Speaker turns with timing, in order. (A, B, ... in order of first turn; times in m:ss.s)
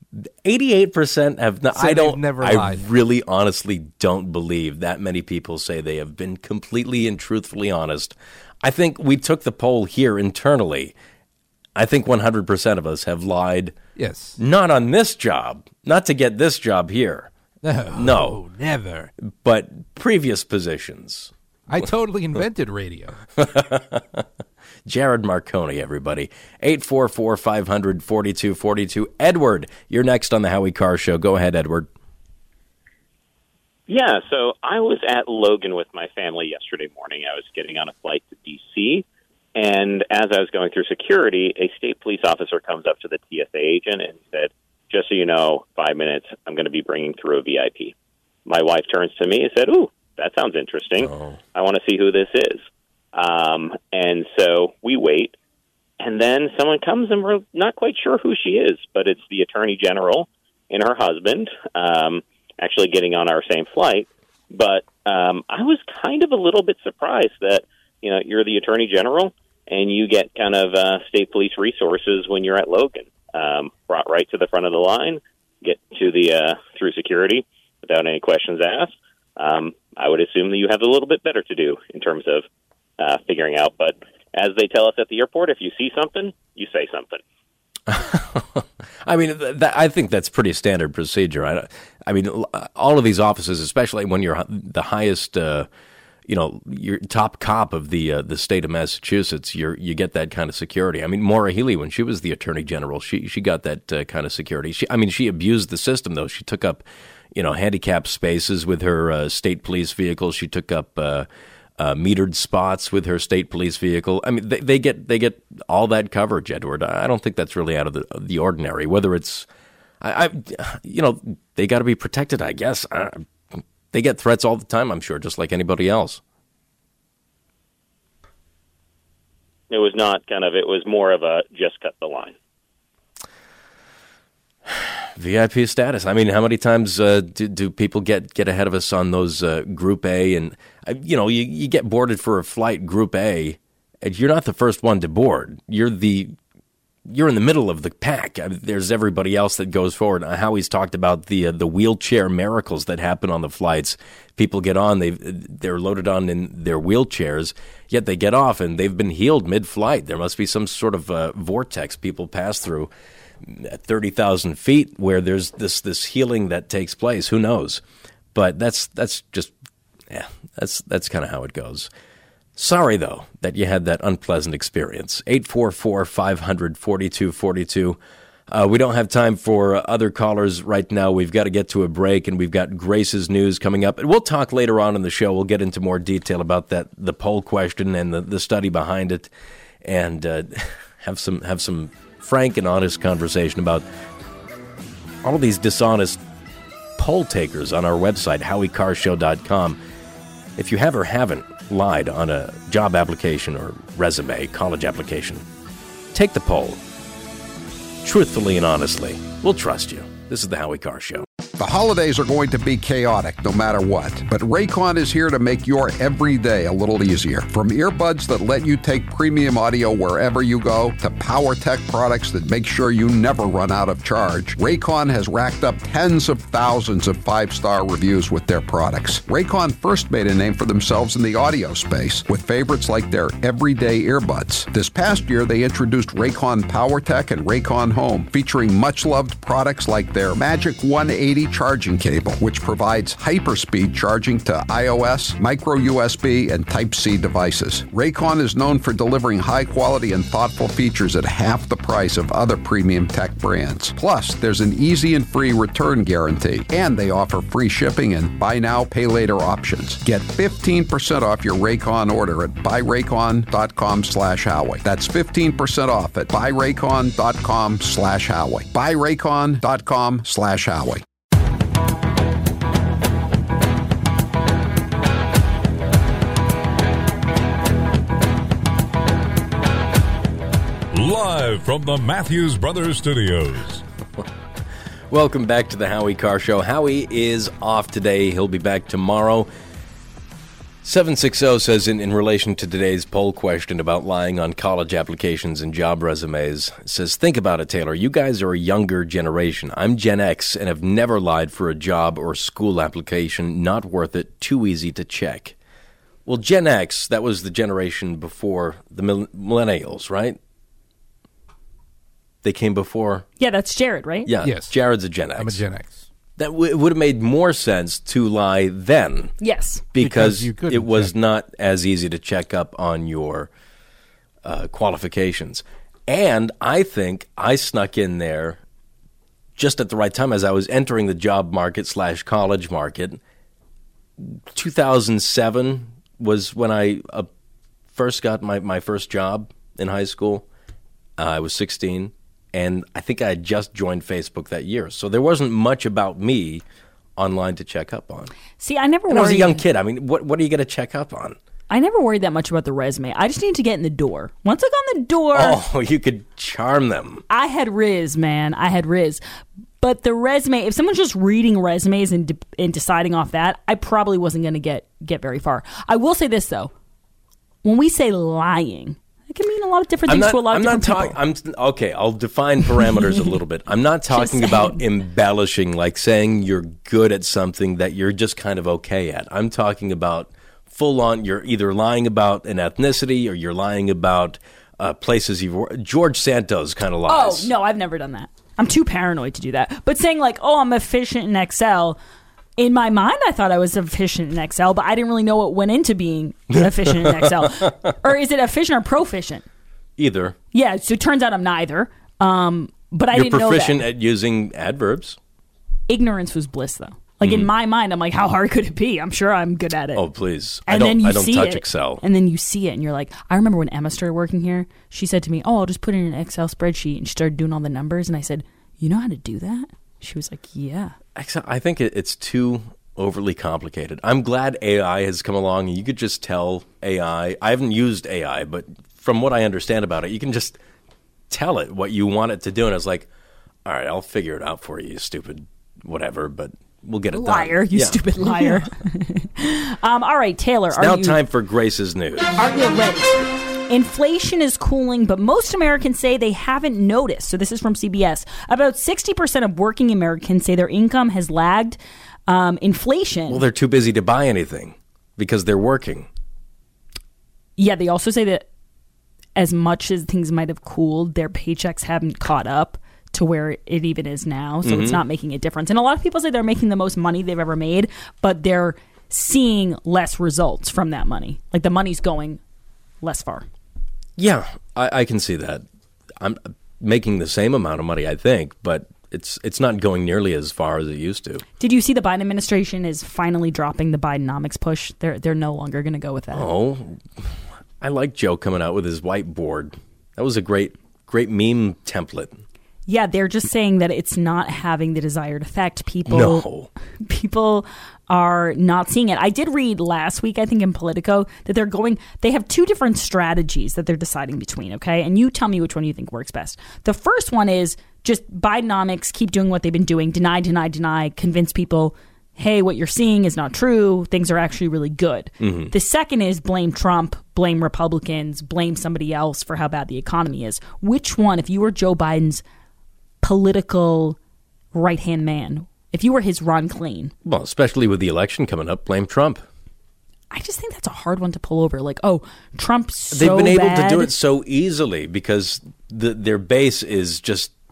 0:00.4-0:11.0 A
0:01.7-0:02.9 B
0:11.8-0:13.8 A
0:14.0-0:14.4 B
0:14.4-0:17.3 A
0:17.6-0:19.1 B
0:17.9-0:18.4 A
0:19.4-0:21.3 A
0:21.7-0:23.2 B
0:23.4-0:24.2 A
0:24.9-0:31.9 A
0:33.9-0:39.0 C
0:39.6-0:47.9 C
0:48.5-0:52.6 C
0:51.0-0:51.4 A
0:53.1-0:55.4 C
0:56.0-1:22.4 C
1:23.0-1:27.2 C
1:27.9-1:35.7 A
1:36.3-1:59.4 A
2:00.0-2:06.2 A
2:09.7-2:12.4 C
2:14.7-2:26.4 A
2:27.1-2:42.9 A
2:43.4-2:47.8 A
2:48.4-2:49.5 A
2:50.1-2:51.9 A
2:52.6-2:58.0 A
2:58.5-3:09.3 A
3:09.8-3:13.8 A
3:15.2-3:16.2 A
3:17.0-3:19.8 A
3:20.6-3:25.4 A
3:26.1-3:26.8 A
3:28.0-3:31.3 A
3:31.6-4:31.0 D
4:40.9-4:43.8 E
4:45.1-4:49.5 A
4:50.8-5:05.6 A
5:06.3-5:10.4 A
5:12.4-5:13.3 A
5:13.4-5:14.3 F
5:14.2-5:15.6 A
5:14.4-5:14.8 B
5:15.4-5:16.0 B
5:16.4-5:19.3 A
5:19.4-5:19.9 F
5:19.9-5:23.5 A
5:20.0-5:21.1 B
5:24.4-5:28.6 A
5:29.6-5:33.2 A
5:34.2-5:37.3 A
5:37.9-5:40.5 A
5:41.2-5:46.6 A
5:47.2-5:48.3 A
5:48.6-5:49.6 F
5:49.1-5:51.4 A
5:51.7-5:55.6 F
5:55.3-5:57.2 A
5:57.3-5:59.2 F
5:59.8-6:06.7 F
6:07.6-6:11.2 F
6:10.1-6:27.5 A
6:14.1-6:14.8 F
6:27.1-6:32.0 F
6:32.6-6:39.4 F
6:36.8-6:37.7 A
6:40.0-6:40.4 A
6:40.5-6:43.8 F
6:43.1-6:45.2 A
6:45.9-6:50.1 F
6:47.2-6:47.5 A
6:49.9-6:52.0 A
6:50.6-7:01.0 F
7:01.2-7:10.6 A
7:11.3-7:13.1 A
7:13.6-7:18.7 A
7:17.1-7:21.2 F
7:20.7-7:22.3 A
7:22.4-7:33.4 F
7:33.3-7:36.1 A
7:37.6-7:38.4 F
7:39.4-7:52.4 F
7:44.6-7:45.0 A
7:53.0-7:53.4 F
7:54.2-7:55.6 A
7:56.2-8:01.4 A
8:01.6-8:06.5 F
8:06.3-8:07.3 A
8:07.8-8:12.4 A
8:12.9-8:42.4 F
8:16.1-8:16.7 A
8:35.4-8:35.7 A
8:43.2-8:44.2 F
8:44.7-8:47.1 F
8:47.2-8:49.4 A
8:50.3-8:54.1 F
8:53.1-8:57.5 A